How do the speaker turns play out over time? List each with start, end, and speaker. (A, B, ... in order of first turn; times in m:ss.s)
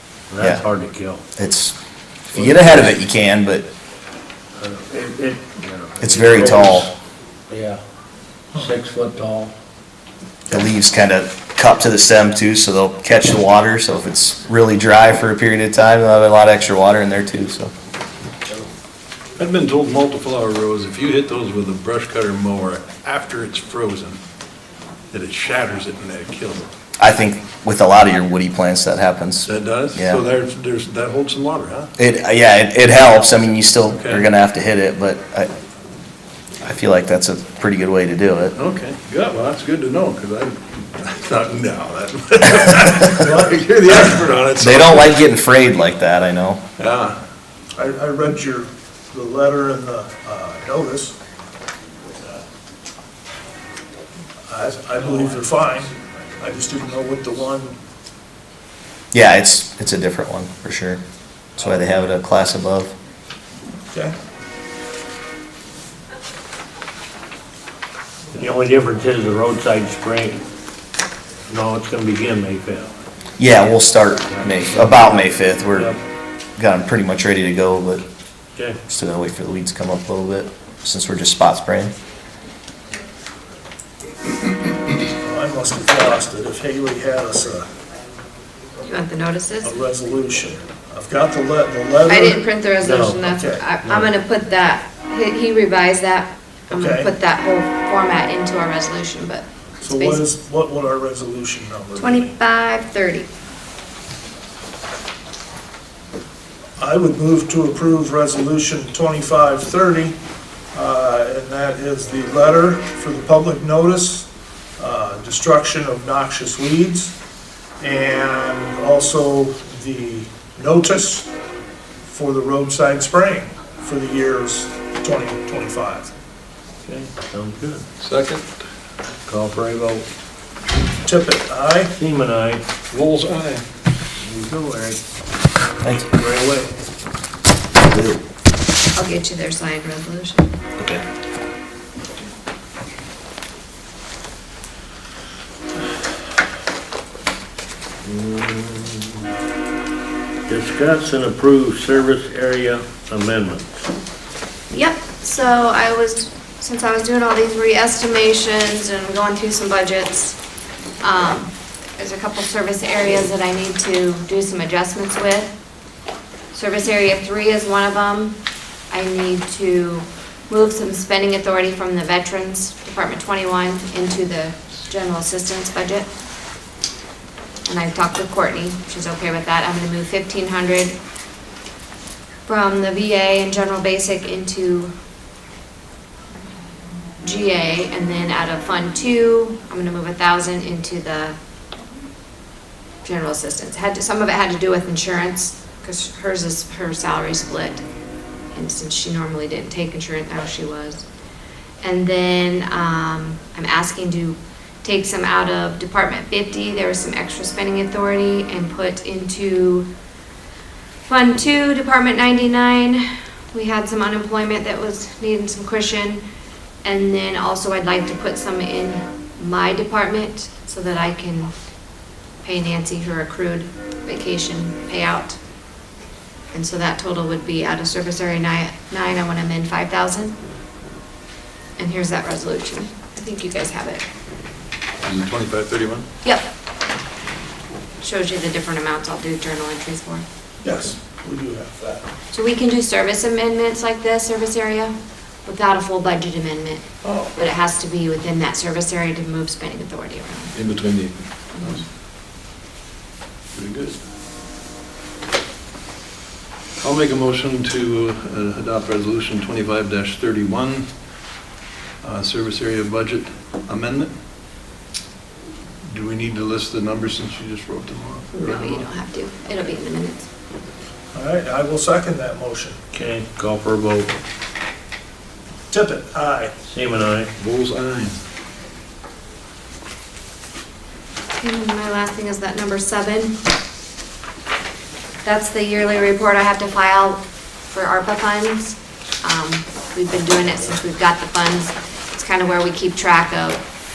0:00.3-0:01.2 A
0:01.4-0:01.8 B
0:02.3-0:03.6 B
0:02.3-0:03.0 A
0:04.6-0:06.9 A
0:06.0-0:06.9 B
0:07.5-0:07.8 A
0:08.6-0:09.5 A
0:10.5-0:17.7 B
0:19.4-0:24.2 C
0:25.1-0:26.7 C
0:27.0-0:30.2 B
0:29.4-0:31.9 C
0:32.0-0:35.5 B
0:33.9-0:34.3 C
0:36.6-0:38.5 B
0:38.6-0:45.1 C
0:42.9-0:44.2 D
0:44.6-0:46.6 B
0:46.8-0:47.2 C
0:47.8-0:51.2 D
0:54.5-0:57.8 D
0:59.1-1:01.0 B
1:01.6-1:02.9 B
1:08.3-1:10.4 A
1:11.5-1:12.9 A
1:13.4-1:15.9 B
1:14.3-1:16.0 A
1:16.6-1:18.0 B
1:18.9-1:21.9 B
1:25.2-1:27.7 D
1:28.8-1:29.7 E
1:29.6-1:32.4 D
1:32.0-1:40.2 E
1:32.8-1:33.2 A
1:33.2-1:33.6 D
1:33.8-1:34.1 A
1:36.7-1:37.1 D
1:39.8-1:42.3 D
1:42.0-1:43.3 E
1:46.8-1:50.2 D
1:50.7-1:54.3 D
1:54.8-1:57.1 D
1:57.8-2:01.3 D
2:02.1-2:06.1 D
2:06.8-2:07.8 A
2:08.0-2:08.6 C
2:09.2-2:10.1 A
2:11.0-2:11.9 D
2:12.0-2:12.6 A
2:12.9-2:13.6 C
2:14.2-2:15.0 A
2:15.8-2:16.1 B
2:16.1-2:16.7 A
2:17.8-2:18.2 B
2:18.9-2:20.6 E
2:28.0-2:29.2 A
2:30.5-2:33.9 A
2:34.7-2:40.4 E
2:41.0-2:45.5 E
2:46.5-2:48.4 E
2:48.9-2:56.1 E
2:57.7-3:01.0 E
3:02.5-3:04.9 E
3:07.2-3:11.4 E
3:13.0-3:17.8 E
3:18.5-3:21.1 E
3:21.8-3:29.9 E
3:31.1-3:36.2 E
3:36.8-3:41.5 E
3:42.4-3:45.4 E
3:46.5-3:50.4 E
3:51.8-3:54.0 E
3:55.0-3:56.1 C
3:58.0-4:00.2 E
4:00.6-4:02.0 D
4:02.3-4:10.6 E
4:07.0-4:07.3 C
4:10.5-4:11.8 C
4:13.5-4:14.0 C
4:16.8-4:20.9 C
4:22.0-4:24.1 C
4:25.9-4:28.9 C
4:28.3-4:30.3 E
4:31.1-4:32.8 D
4:32.9-4:34.1 A
4:35.7-4:36.6 D
4:36.6-4:37.3 A
4:37.4-4:38.2 C
4:41.4-4:43.4 E
4:45.2-4:53.6 E